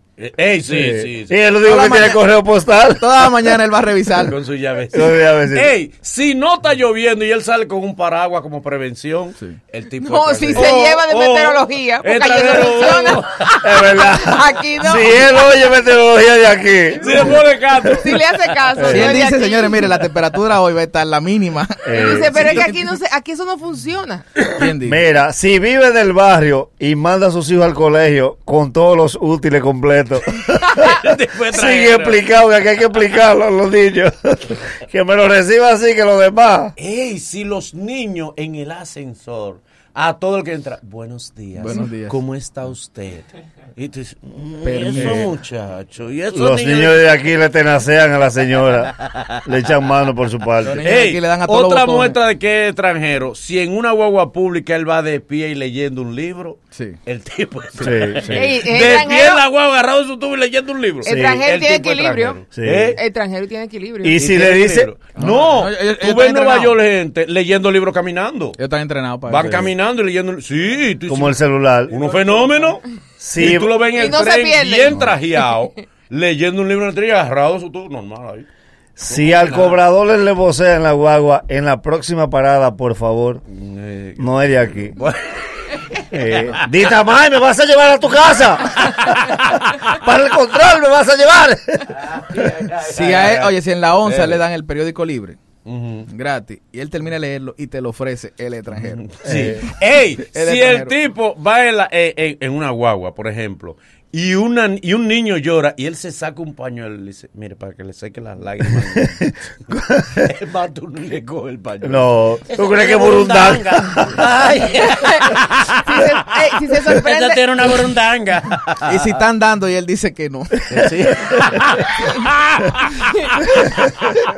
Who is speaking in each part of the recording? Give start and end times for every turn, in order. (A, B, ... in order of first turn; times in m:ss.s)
0:00.2-0:01.4 A
0:00.7-0:03.5 B
0:01.6-0:02.2 C
0:03.0-0:04.3 C
0:04.2-0:13.8 A
0:04.9-0:05.7 B
0:10.0-0:15.5 D
0:13.6-0:17.4 B
0:17.0-0:18.9 A
0:17.9-0:19.9 D
0:18.8-0:19.2 B
0:18.9-0:22.8 C
0:21.8-0:22.5 B
0:21.9-0:24.2 D
0:24.5-0:25.0 C
0:24.8-0:30.9 B
0:30.8-0:32.2 A
0:31.5-0:36.7 B
0:36.8-0:47.1 A
0:41.6-0:42.2 C
0:44.6-0:45.3 C
0:44.9-0:45.3 B
0:46.3-0:50.8 B
0:50.6-0:52.2 C
0:50.6-1:03.0 A
0:57.8-0:58.6 B
0:58.3-0:59.4 D
1:01.0-1:02.4 D
1:01.1-1:01.4 B
1:02.5-1:03.0 B
1:02.9-1:04.2 D
1:04.0-1:04.9 B
1:04.2-1:08.6 A
1:05.2-1:06.8 C
1:08.6-1:09.5 C
1:09.2-1:12.8 A
1:09.4-1:09.7 B
1:11.1-1:12.0 B
1:13.2-1:13.7 B
1:13.4-1:18.5 A
1:13.9-1:15.4 D
1:19.0-1:23.4 B
1:19.1-1:19.8 A
1:23.5-1:26.7 A
1:24.2-1:24.9 B
1:26.1-1:32.0 B
1:28.8-1:29.5 A
1:31.9-1:34.4 A
1:32.8-1:35.4 C
1:35.6-1:36.1 A
1:36.1-1:39.2 C
1:38.8-1:56.1 A
1:39.2-1:39.6 B
1:40.3-1:40.9 C
1:48.9-1:50.2 B
1:51.8-1:54.3 B
1:54.8-1:57.5 D
1:56.8-1:58.9 A
1:58.8-2:00.5 C
2:00.7-2:03.7 A
2:03.6-2:04.1 B